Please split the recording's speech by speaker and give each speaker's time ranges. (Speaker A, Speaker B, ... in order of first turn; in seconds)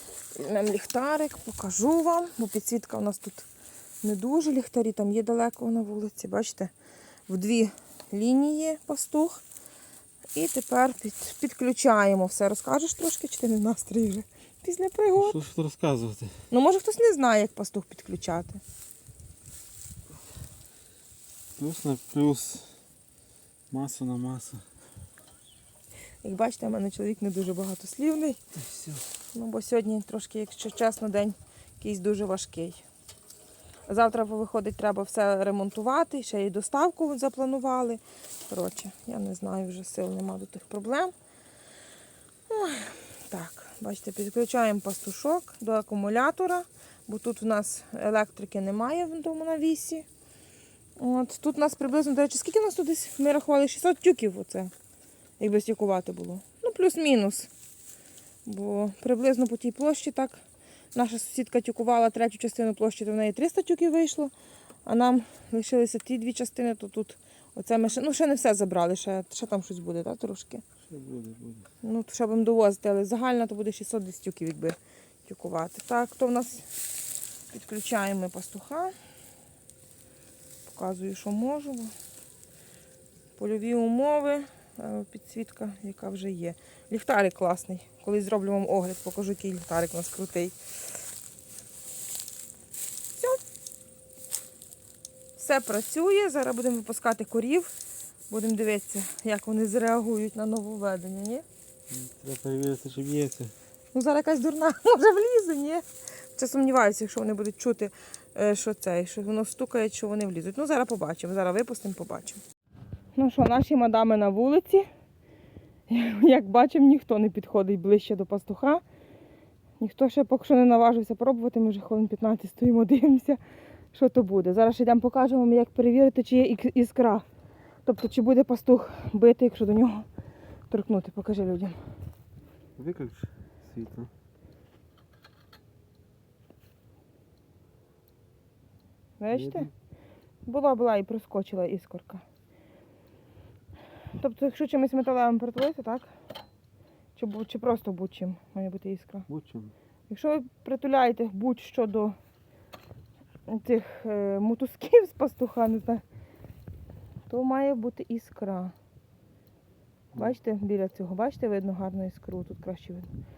Speaker A: 0.3-3.5, 4.0-6.7, 7.3-9.4, 10.3-15.4, 16.5-18.6, 26.2-28.4, 29.3-32.8, 33.9-41.1, 42.5-50.0, 51.0-54.7, 55.4-57.5, 58.5-60.4, 60.9-64.3, 64.8-70.6, 71.8-76.7, 77.5-78.9, 80.7-81.9, 83.4-90.6, 95.4-97.7, 98.3-101.4, 103.9-105.8, 106.3-112.4, 113.1-114.9, 115.9-118.8, 119.8-123.4, 123.9-127.2, 127.8-130.1, 130.7-131.8, 139.2-139.7, 140.4-142.2, 144.2-146.1, 147.2-149.3, 150.1-152.1, 153.5-156.0, 157.3-158.7, 160.1-163.1
Speaker B: 15.2-16.3, 21.6-22.7, 23.7-24.6, 28.6-29.0, 70.9-71.7, 101.9-103.5, 132.8-134.1, 139.3-139.7, 149.3-149.7